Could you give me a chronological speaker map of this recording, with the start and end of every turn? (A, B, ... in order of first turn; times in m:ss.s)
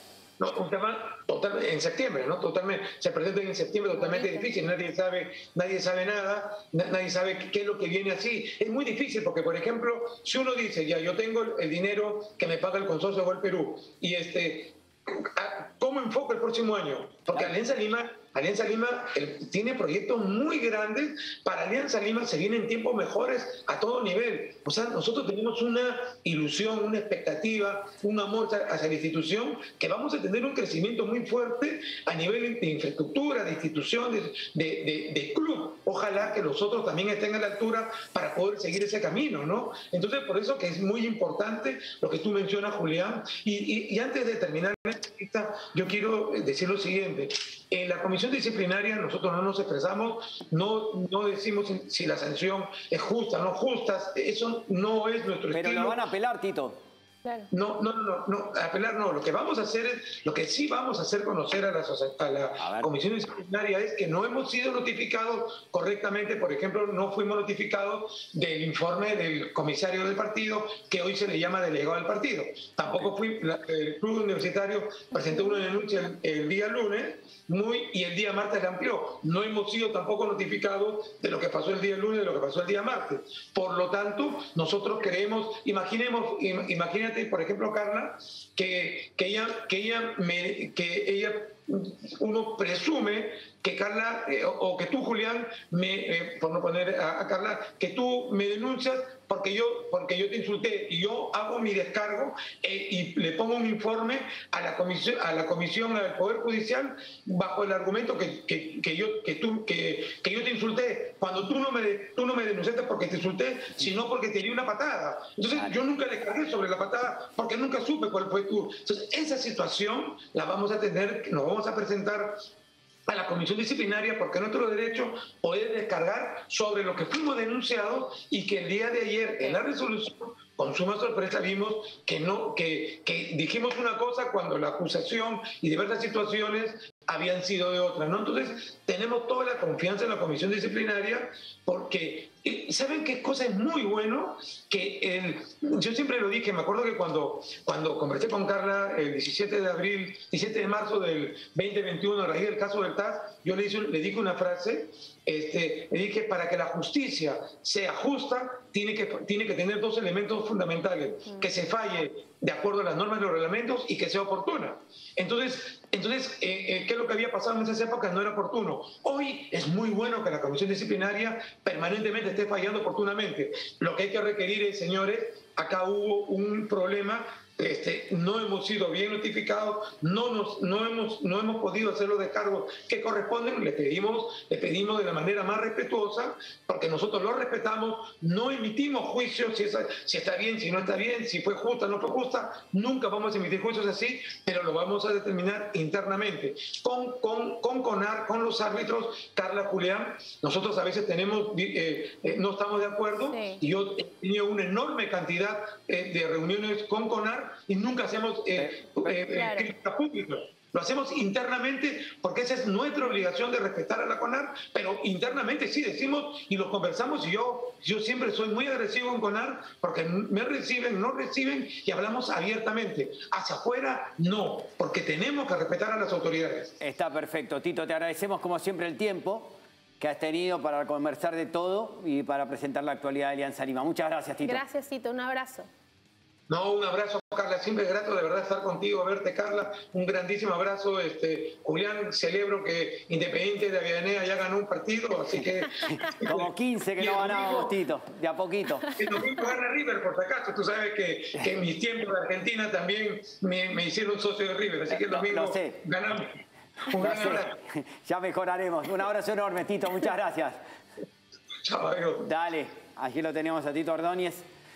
0:00.4-0:56.0 A
0:04.0-0:04.5 B
0:55.5-0:56.8 C
0:57.2-0:57.5 B
0:57.5-2:02.5 A
1:02.6-1:02.9 C
2:03.1-3:46.8 A
3:23.3-3:23.6 B
3:28.6-3:29.1 C
3:29.3-3:29.7 B
3:46.8-3:54.6 C
3:54.4-3:55.7 B
3:56.5-4:07.8 A
4:05.9-4:08.9 C
4:09.0-4:17.6 A
4:14.9-4:15.8 C
4:16.9-4:20.6 C
4:21.6-4:22.3 A
4:22.2-4:24.4 C